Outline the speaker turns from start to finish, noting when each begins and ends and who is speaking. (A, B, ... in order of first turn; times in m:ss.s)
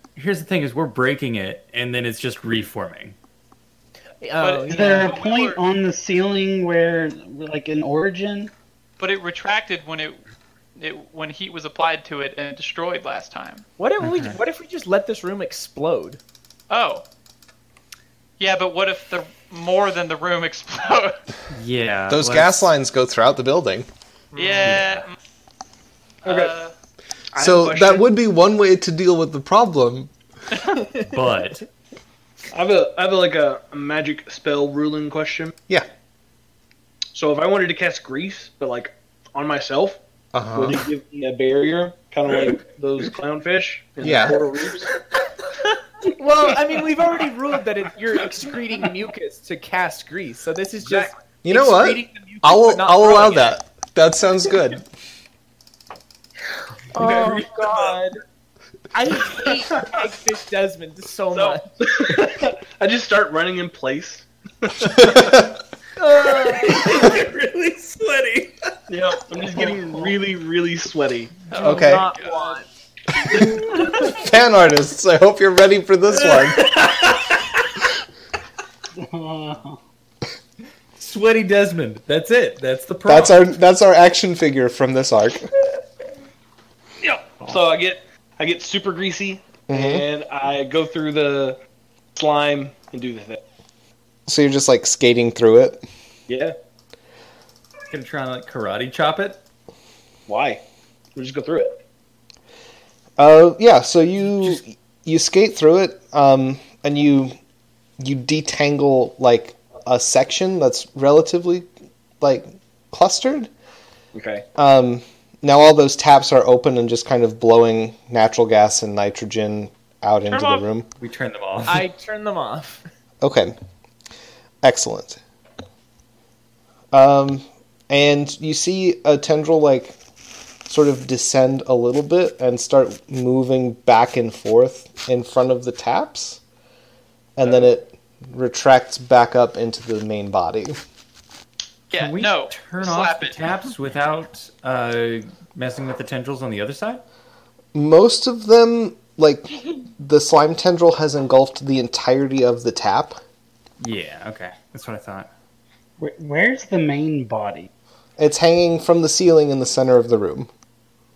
0:00.2-0:03.2 A
0:04.2-0:05.1 B
0:04.4-0:05.6 C
0:04.7-0:08.5 D
0:09.0-0:10.2 C
0:10.8-0:13.6 C
0:13.8-0:16.2 B
0:14.0-0:14.4 A
0:16.7-0:17.0 C
0:18.4-0:21.1 C
0:21.5-0:22.7 A
0:22.1-0:23.9 E
0:24.3-0:24.8 B
0:24.3-0:25.2 C
0:24.6-0:25.0 A
0:26.2-0:26.7 C
0:26.2-0:26.5 F
0:27.3-0:28.1 F
0:27.4-0:30.1 E
0:31.0-0:31.6 A
0:32.5-0:35.5 F
0:37.1-0:40.0 F
0:40.3-0:40.8 E
0:40.5-0:44.9 F
0:44.0-0:44.4 E
0:46.0-0:53.6 B
0:50.8-0:51.1 F
0:51.4-0:54.8 E
0:56.9-0:58.1 B
0:56.9-0:58.1 F
0:58.9-1:01.7 B
1:01.3-1:05.4 F
1:05.0-1:05.4 E
1:06.0-1:07.0 B
1:06.6-1:08.6 A
1:08.9-1:11.4 F
1:09.3-1:10.1 D
1:11.5-1:12.5 C
1:11.5-1:12.7 B
1:11.6-1:12.1 E
1:13.3-1:16.8 E
1:16.2-1:17.8 A
1:19.0-1:19.8 D
1:21.0-1:23.4 A
1:23.0-1:25.5 E
1:27.0-1:31.6 F
1:29.7-1:30.0 E
1:32.1-1:33.4 F
1:34.3-1:35.8 E
1:36.3-1:36.5 F
1:37.9-1:39.4 A
1:40.3-1:40.6 F
1:41.2-1:41.8 F
1:43.2-1:47.3 E
1:48.0-1:51.7 E
1:52.2-1:53.5 E
1:54.1-1:54.4 F
1:54.6-2:00.9 E
2:00.3-2:00.6 C
2:01.0-2:01.8 A
2:01.6-2:02.8 B
2:03.2-2:03.6 E
2:04.6-2:05.2 E
2:06.9-2:10.0 E
2:10.7-2:16.4 E
2:17.4-2:20.8 E
2:21.9-2:27.0 A
2:21.9-2:23.6 C
2:27.7-2:33.2 E
2:33.8-2:35.3 A
2:36.0-2:37.7 D
2:38.2-2:40.5 E